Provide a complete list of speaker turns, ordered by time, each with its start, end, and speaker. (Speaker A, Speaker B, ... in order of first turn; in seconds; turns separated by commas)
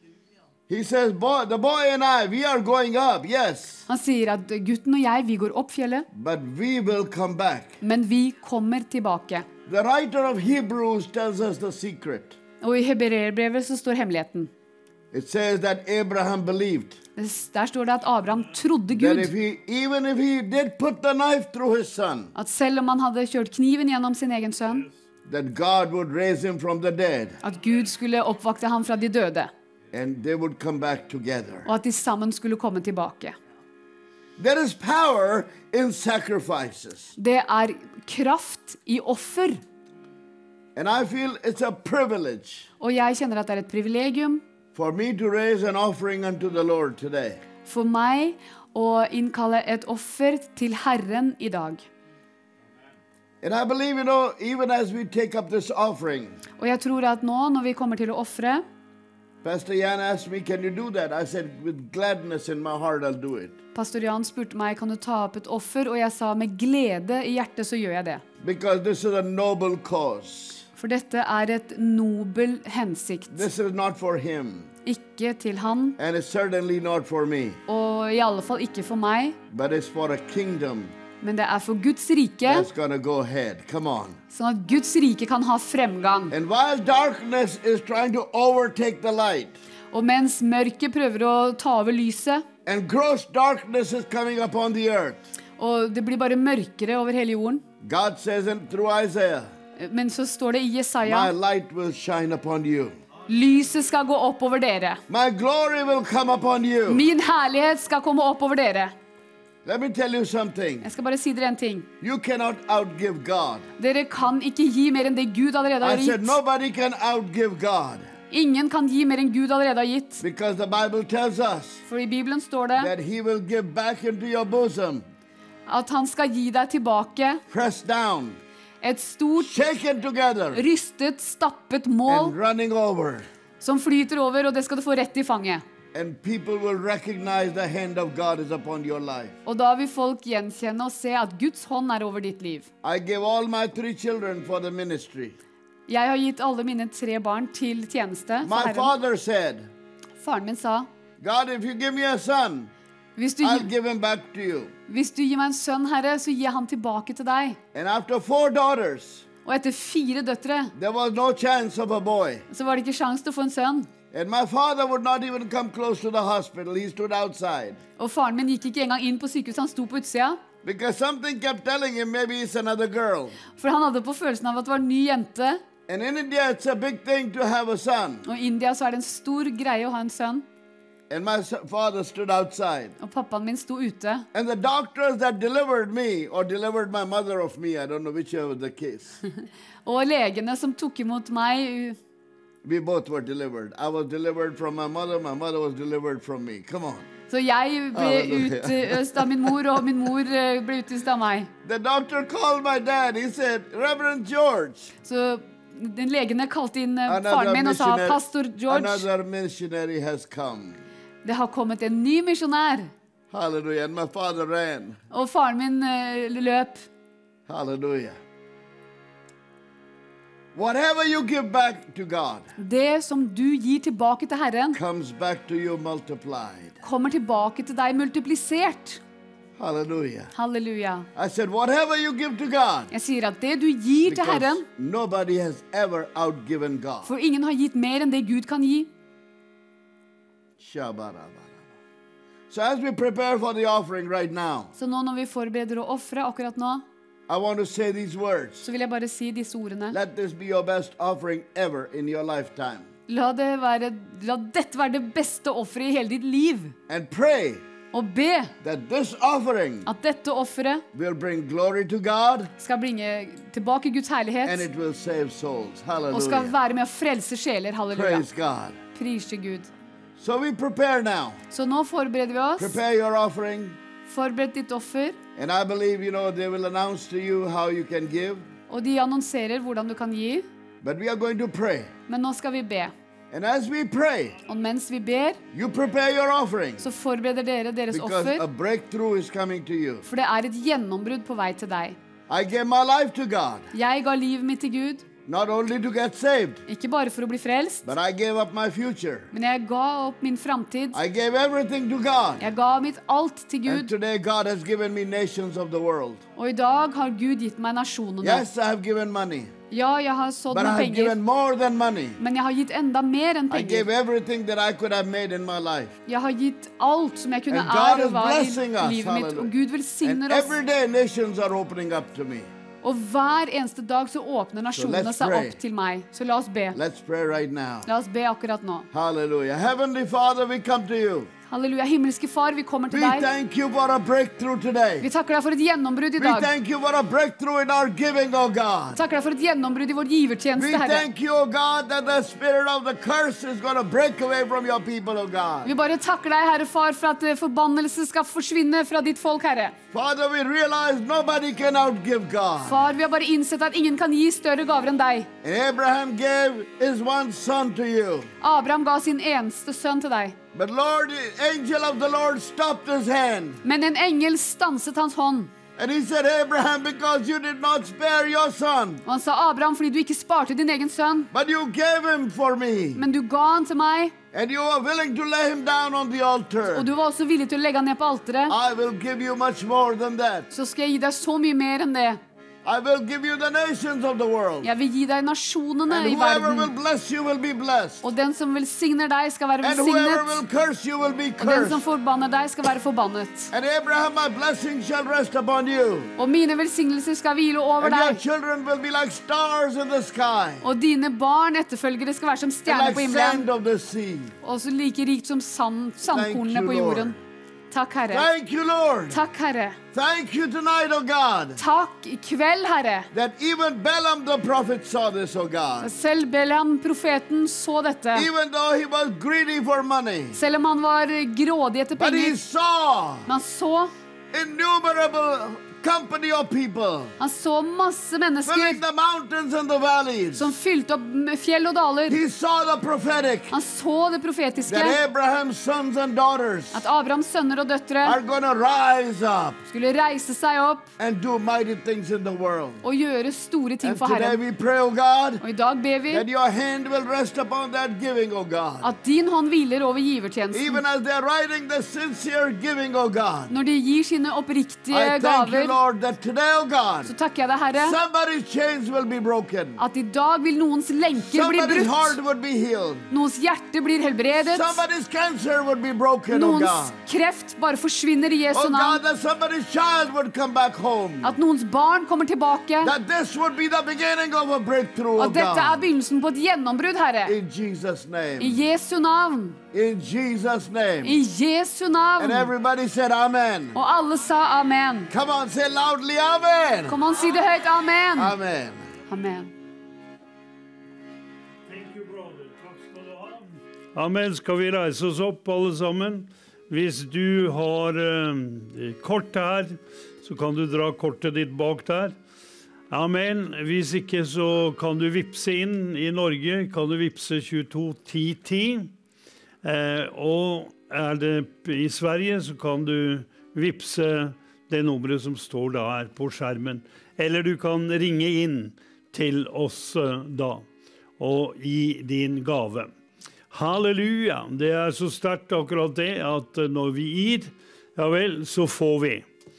Speaker A: 0.7-3.8, Speaker B: 3.9-6.1, Speaker A: 6.1-7.8, Speaker B: 7.8-9.5, Speaker A: 9.7-12.4, Speaker B: 12.6-14.5, Speaker A: 15.1-17.0, Speaker B: 17.2-19.3, Speaker A: 18.9-22.3, Speaker B: 22.3-24.9, Speaker A: 25.2-27.4, Speaker B: 27.4-29.5, Speaker A: 29.9-31.7, Speaker B: 31.7-33.4, Speaker A: 34.4-37.1, Speaker B: 37.2-39.6, Speaker A: 40.8-42.7, Speaker B: 42.8-44.4, Speaker A: 44.7-47.4, Speaker B: 47.6-51.9, Speaker A: 53.4-56.4, Speaker B: 56.6-58.6, Speaker A: 59.4-63.6, Speaker B: 63.7-68.2, Speaker A: 68.4-70.7, Speaker B: 70.8-73.4, Speaker A: 73.3-74.7, Speaker B: 74.8-76.0, Speaker A: 76.0-77.6, Speaker B: 77.7-79.4, Speaker A: 79.5-80.9, Speaker B: 81.2-82.7, Speaker A: 82.5-84.2, Speaker B: 84.3-86.3, Speaker A: 86.3-89.6, Speaker B: 89.9-92.4, Speaker A: 92.6-95.2, Speaker B: 95.6-97.6, Speaker A: 97.8-99.5, Speaker B: 99.8-101.3, Speaker A: 101.0-103.0, Speaker B: 103.3-105.0, Speaker A: 105.1-107.0, Speaker B: 106.9-108.9, Speaker A: 109.6-110.9, Speaker B: 110.8-111.9, Speaker A: 112.0-113.7, Speaker B: 113.8-116.4, Speaker A: 115.8-118.1, Speaker B: 118.3-120.2, Speaker A: 120.2-121.8, Speaker B: 121.8-122.9, Speaker A: 122.8-125.0, Speaker B: 125.7-127.4, Speaker A: 127.5-128.4, Speaker B: 128.8-129.6, Speaker A: 129.4-130.6, Speaker B: 130.5-132.3, Speaker A: 132.1-133.3, Speaker B: 133.6-135.6, Speaker A: 135.9-139.4, Speaker B: 139.4-142.7, Speaker A: 142.8-145.4, Speaker B: 145.9-148.9, Speaker A: 148.4-149.7, Speaker B: 150.2-150.9, Speaker A: 151.2-152.7, Speaker B: 153.2-153.7, Speaker A: 153.4-154.7, Speaker B: 154.9-157.6, Speaker A: 157.7-159.2, Speaker B: 159.4-160.7, Speaker A: 160.8-162.4, Speaker B: 162.5-163.9, Speaker A: 164.1-167.8, Speaker B: 168.0-170.4, Speaker A: 170.6-173.4, Speaker B: 173.5-175.6, Speaker A: 175.9-178.2, Speaker B: 178.2-180.4, Speaker A: 181.1-182.9, Speaker B: 183.0-184.2, Speaker A: 184.3-189.2, Speaker B: 189.8-192.0, Speaker A: 192.6-197.1, Speaker B: 197.3-201.5, Speaker A: 197.9-199.7, Speaker A: 201.6-204.9, Speaker B: 205.0-209.1, Speaker A: 207.1-210.8, Speaker B: 211.2-212.9, Speaker A: 213.3-215.0, Speaker B: 215.1-216.9, Speaker A: 217.5-218.2, Speaker A: 220.5-222.5, Speaker B: 222.6-224.8, Speaker A: 224.7-226.8, Speaker B: 226.8-229.0, Speaker A: 229.6-230.3, Speaker B: 230.3-231.1, Speaker A: 231.1-232.9, Speaker B: 232.9-234.7, Speaker A: 234.0-237.1, Speaker B: 237.1-238.9, Speaker A: 240.6-241.6, Speaker A: 242.5-244.7, Speaker B: 244.8-246.8, Speaker A: 247.3-248.7, Speaker B: 248.6-250.0, Speaker A: 249.9-252.9, Speaker B: 253.1-256.7, Speaker A: 256.9-257.6, Speaker B: 257.9-258.5, Speaker A: 258.6-259.9, Speaker B: 259.9-260.8, Speaker A: 260.9-262.5, Speaker B: 262.6-264.6, Speaker A: 264.4-266.5, Speaker B: 266.1-268.2, Speaker A: 267.9-268.8, Speaker B: 268.9-269.7, Speaker A: 270.2-271.4, Speaker B: 271.5-272.8, Speaker A: 272.6-273.8, Speaker B: 274.1-275.2, Speaker A: 275.4-278.4, Speaker B: 278.7-280.5, Speaker A: 280.8-281.9, Speaker B: 282.1-282.9, Speaker A: 283.3-284.4, Speaker B: 284.5-285.4, Speaker A: 285.5-286.9, Speaker B: 286.8-288.4, Speaker A: 287.9-290.1, Speaker B: 290.1-292.0, Speaker A: 292.3-293.7, Speaker B: 293.7-295.1, Speaker A: 295.2-296.6, Speaker B: 296.7-297.9, Speaker A: 297.9-299.3, Speaker B: 299.3-301.0, Speaker A: 300.9-302.5, Speaker B: 302.4-303.9, Speaker A: 303.6-306.2, Speaker B: 306.4-308.4, Speaker A: 308.2-309.5, Speaker B: 309.7-311.1, Speaker A: 310.5-312.2, Speaker B: 312.2-313.9, Speaker A: 313.5-316.0, Speaker B: 316.1-320.5, Speaker A: 317.5-322.5, Speaker B: 322.8-326.8, Speaker A: 324.7-325.6, Speaker A: 326.7-327.9, Speaker B: 327.9-328.9, Speaker A: 328.9-331.3, Speaker B: 331.5-333.3, Speaker A: 332.9-335.1, Speaker B: 335.0-336.5, Speaker A: 336.2-339.0, Speaker B: 338.9-341.0, Speaker A: 340.6-345.7, Speaker B: 345.6-349.8, Speaker A: 349.9-352.9, Speaker B: 352.6-355.3, Speaker A: 355.4-358.3, Speaker B: 358.4-360.4, Speaker A: 360.5-363.6, Speaker B: 363.6-365.5, Speaker A: 365.8-369.0, Speaker B: 369.1-371.3, Speaker A: 371.3-373.0, Speaker B: 372.9-374.1, Speaker A: 374.3-376.9, Speaker B: 376.7-378.5, Speaker A: 378.5-380.5, Speaker B: 380.5-382.2, Speaker A: 382.6-384.7, Speaker B: 384.6-386.7, Speaker A: 385.9-388.0, Speaker B: 388.0-390.4, Speaker A: 389.6-391.8, Speaker B: 391.4-393.5, Speaker A: 393.5-396.1, Speaker B: 396.2-398.2, Speaker A: 397.8-400.6, Speaker B: 400.6-403.4, Speaker A: 402.6-404.3, Speaker B: 404.4-407.1, Speaker A: 406.1-407.2, Speaker B: 407.7-408.2, Speaker A: 408.1-409.2, Speaker B: 409.1-409.8, Speaker A: 409.9-411.6, Speaker B: 411.6-413.1, Speaker A: 413.1-415.9, Speaker B: 415.8-418.3, Speaker A: 418.1-420.4, Speaker B: 420.3-422.4, Speaker A: 421.9-423.3, Speaker B: 423.3-423.9, Speaker A: 424.3-427.1, Speaker B: 427.2-428.8, Speaker A: 428.4-430.5, Speaker B: 430.4-432.2, Speaker A: 432.1-433.6, Speaker B: 433.5-435.0, Speaker A: 434.7-436.9, Speaker B: 436.7-438.2, Speaker A: 438.0-439.6, Speaker B: 439.7-440.9, Speaker A: 441.0-442.8, Speaker B: 442.8-444.4, Speaker A: 443.8-445.4, Speaker B: 445.4-446.2, Speaker A: 446.1-448.9, Speaker B: 448.8-450.8, Speaker A: 450.5-453.5, Speaker B: 453.5-455.7, Speaker A: 454.9-457.1, Speaker B: 457.1-458.0, Speaker A: 457.8-459.8, Speaker B: 459.8-462.1, Speaker A: 461.2-463.1, Speaker B: 463.1-464.8, Speaker A: 464.5-467.0, Speaker B: 466.3-469.0, Speaker A: 468.5-471.4, Speaker B: 471.2-472.9, Speaker A: 472.8-475.8, Speaker B: 475.2-477.3, Speaker A: 477.2-478.6, Speaker B: 478.4-479.6, Speaker A: 479.7-481.2, Speaker B: 481.0-482.5, Speaker A: 482.2-483.8, Speaker B: 483.7-485.1, Speaker A: 485.1-487.0, Speaker B: 486.9-488.3, Speaker A: 488.2-488.9, Speaker B: 489.1-489.5, Speaker C: 491.7-502.1, Speaker C: 502.9-508.9, Speaker C: 509.6-520.6, Speaker C: 521.2-522.9, Speaker C: 523.5-529.2